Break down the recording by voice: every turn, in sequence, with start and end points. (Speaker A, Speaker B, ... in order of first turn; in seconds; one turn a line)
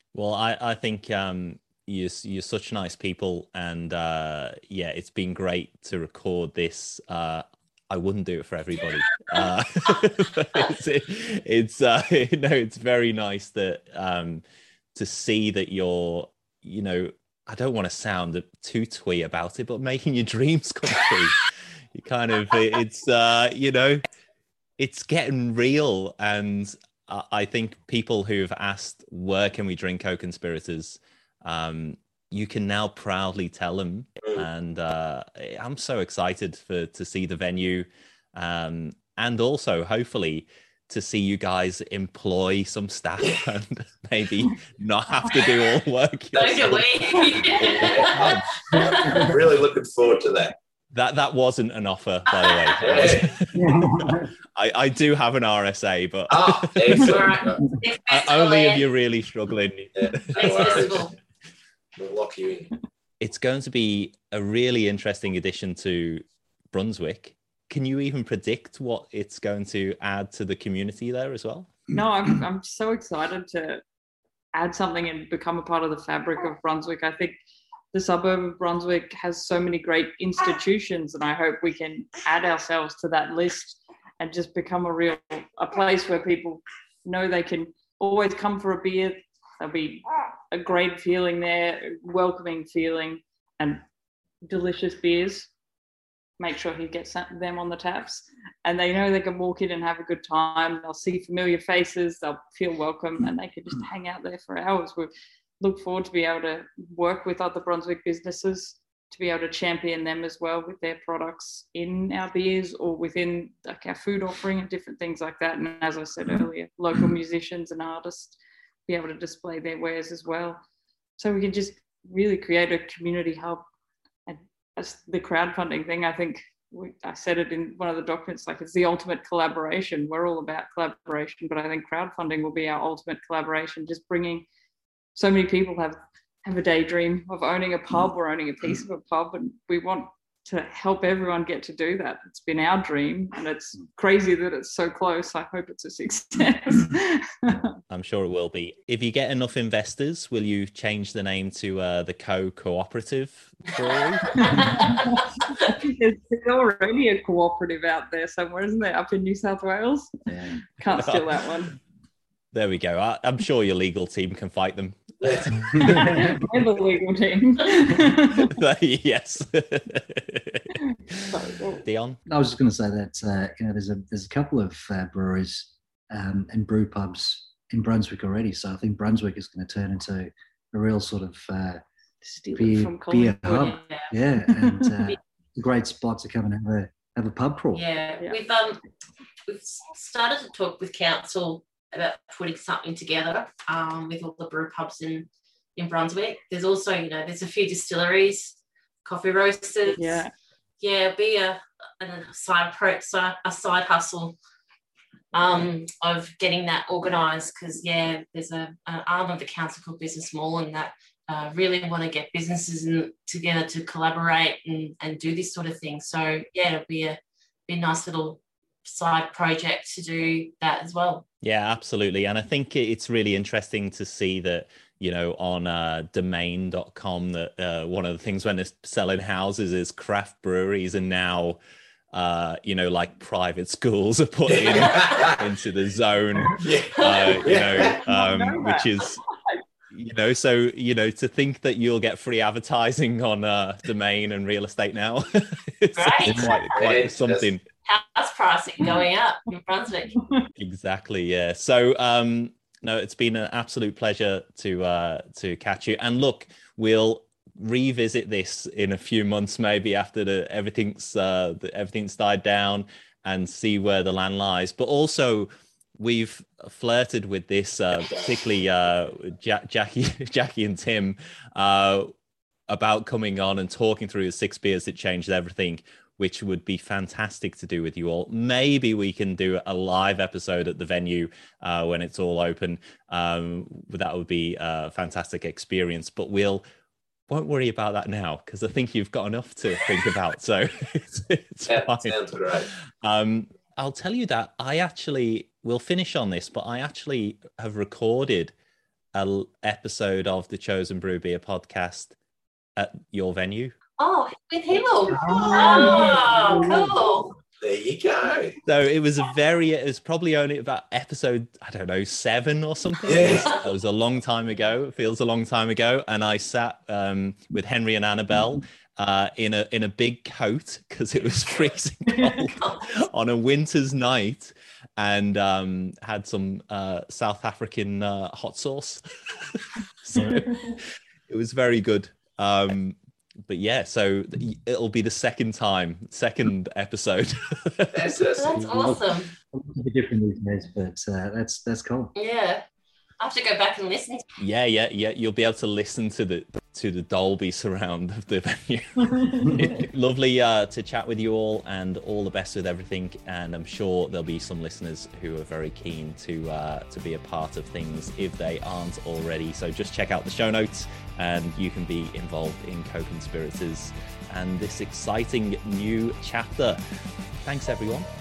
Speaker A: 0.1-14.4
Speaker A: 14.9-24.0
Speaker A: 24.8-48.4
Speaker B: 46.3-48.9
Speaker C: 47.8-50.5
Speaker D: 48.9-49.2
Speaker A: 50.9-57.2
Speaker B: 52.4-52.7
Speaker C: 52.8-53.3
Speaker D: 53.5-54.3
Speaker C: 56.3-57.6
Speaker B: 57.1-58.8
Speaker A: 58.1-60.9
Speaker C: 60.0-61.0
Speaker B: 60.4-61.1
Speaker C: 62.0-62.7
Speaker A: 63.2-71.9
Speaker E: 71.9-73.8
Speaker E: 74.5-77.4
Speaker E: 77.9-93.8
Speaker E: 94.5-95.5
Speaker E: 96.4-118.4
Speaker E: 118.9-120.6
Speaker E: 121.2-123.6
Speaker E: 124.3-134.4
Speaker E: 135.1-147.7
Speaker A: 147.9-154.5
Speaker B: 154.4-154.9
Speaker E: 154.5-160.1
Speaker D: 160.3-160.6
Speaker E: 160.8-161.8
Speaker A: 160.9-161.3
Speaker A: 162.5-166.1
Speaker E: 165.8-168.5
Speaker A: 168.4-170.7
Speaker E: 171.3-171.8
Speaker A: 171.8-172.2
Speaker D: 172.3-181.8
Speaker E: 182.2-183.6
Speaker D: 182.5-187.8
Speaker B: 183.4-184.1
Speaker E: 184.5-184.8
Speaker B: 187.7-188.8
Speaker B: 189.5-200.2
Speaker E: 199.9-200.3
Speaker B: 200.8-204.3
Speaker B: 205.3-221.2
Speaker A: 221.4-231.6
Speaker A: 232.1-239.2
Speaker C: 234.5-235.3
Speaker C: 236.5-238.0
Speaker B: 237.0-237.3
Speaker E: 238.0-239.6
Speaker A: 239.9-247.6
Speaker B: 245.9-246.6
Speaker C: 246.7-247.5
Speaker B: 247.8-250.1
Speaker E: 250.2-250.5
Speaker A: 250.6-272.1
Speaker C: 268.0-268.3
Speaker A: 272.7-286.6
Speaker A: 287.3-298.5
Speaker C: 291.7-292.7
Speaker A: 299.1-302.1
Speaker A: 302.8-303.7
Speaker B: 304.0-307.3
Speaker D: 305.1-306.8
Speaker A: 305.2-306.2
Speaker C: 307.6-308.6
Speaker A: 308.6-332.9
Speaker C: 313.1-313.5
Speaker A: 333.5-338.2
Speaker C: 337.9-338.5
Speaker B: 338.4-339.3
Speaker D: 338.5-342.1
Speaker B: 342.1-342.6
Speaker B: 343.2-344.2
Speaker A: 344.4-366.8
Speaker A: 367.4-368.1